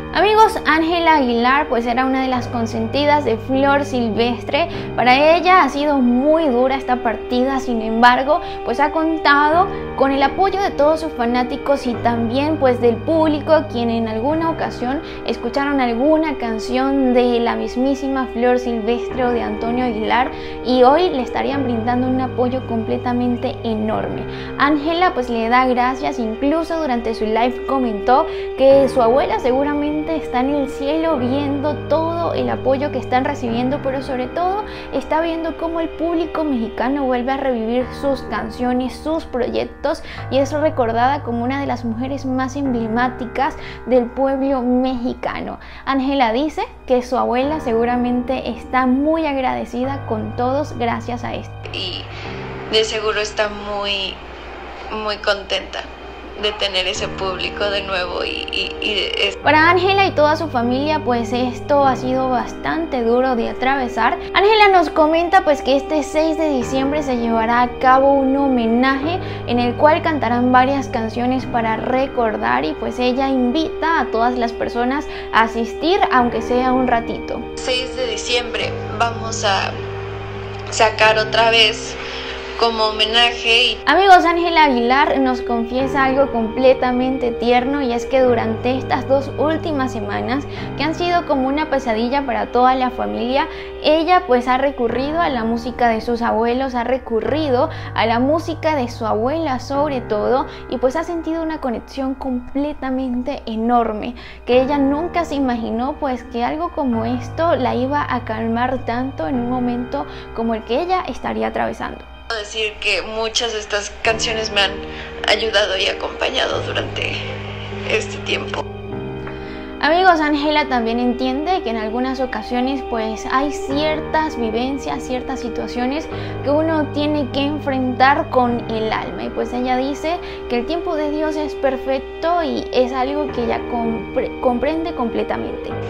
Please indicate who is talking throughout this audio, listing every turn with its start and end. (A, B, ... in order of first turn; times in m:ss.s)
0:00.1-0:51.6 A
0:51.7-0:52.1 B
0:52.7-0:54.2 B
0:54.9-0:55.8 B
0:56.4-0:59.4 B
0:59.4-1:17.4 A
1:17.6-1:19.7 B
1:20.7-1:22.0 B
1:22.6-1:23.8 B
1:23.8-1:52.0 A
1:52.3-1:57.2 B
1:57.9-1:58.6 B
1:59.8-2:15.8 A